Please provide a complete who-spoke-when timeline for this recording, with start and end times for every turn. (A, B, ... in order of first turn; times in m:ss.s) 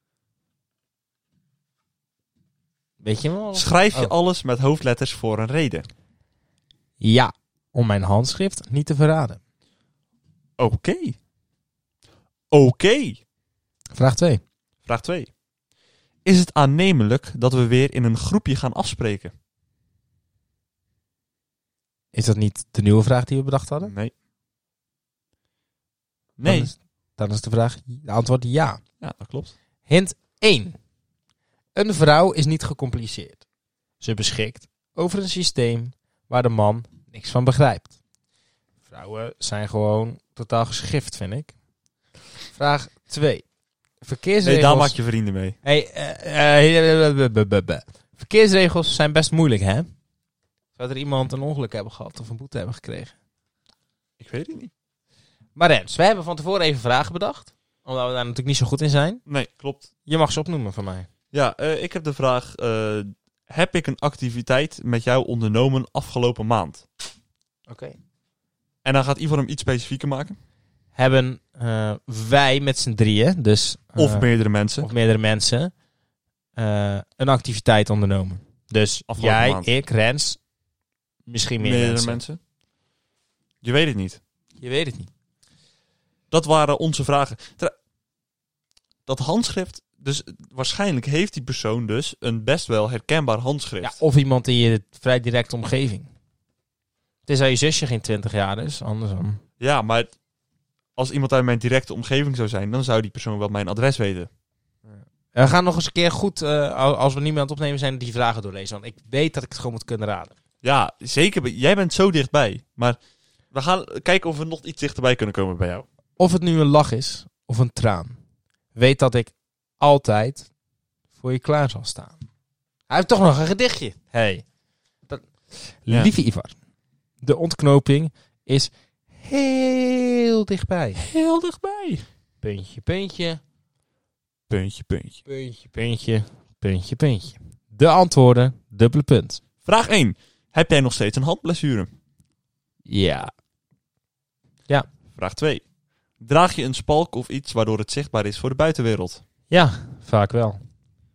0:03.0-0:04.1 A
0:03.5-0:05.9 B
0:07.0-0:09.4 A
0:10.6-0:11.2 B
0:12.5-0:13.2 B
0:13.9-0:14.4 A
0:14.8-0:15.3 B
0:16.2-0:19.3 B
0:22.1-0:23.9 A
0:23.8-0:24.1 B
0:26.4-0:26.7 B
0:26.4-0:28.8 A
0:29.0-0:29.5 B
0:29.9-0:30.8 A
0:31.8-0:33.4 A
0:34.0-0:37.9 A
0:38.9-0:41.5 A
0:42.5-0:43.4 A
0:44.0-0:45.0 A
0:44.4-0:45.6 B
0:45.6-0:49.9 A
0:50.8-0:53.1 A
0:54.2-0:54.7 B
0:55.6-0:59.2 A
0:59.3-0:59.9 B
1:00.1-1:01.1 A
1:01.3-1:06.8 B
1:07.7-1:08.0 A
1:08.8-1:10.4 B
1:11.0-1:14.3 A
1:14.0-1:14.9 B
1:14.8-1:15.7 A
1:16.6-1:20.4 A
1:19.1-1:19.7 B
1:21.3-1:22.2 A
1:21.6-1:22.4 B
1:23.6-1:24.2 B
1:24.6-1:25.1 A
1:26.3-1:27.7 B
1:29.1-1:34.0 B
1:33.8-1:36.1 A
1:37.3-1:39.4 A
1:39.6-1:40.1 B
1:41.0-1:44.3 B
1:44.9-1:50.4 A
1:50.6-1:53.0 B
1:53.5-1:55.8 B
1:56.2-1:58.2 A
1:58.8-2:00.5 A
2:01.2-2:02.2 A
2:02.9-2:04.4 A
2:05.1-2:06.6 A
2:07.2-2:11.0 A
2:11.0-2:12.0 B
2:12.4-2:13.4 A
2:14.5-2:15.2 B
2:15.3-2:19.4 A
2:19.6-2:21.9 B
2:22.9-2:23.3 A
2:25.1-2:25.6 B
2:26.2-2:29.2 B
2:29.5-2:30.6 A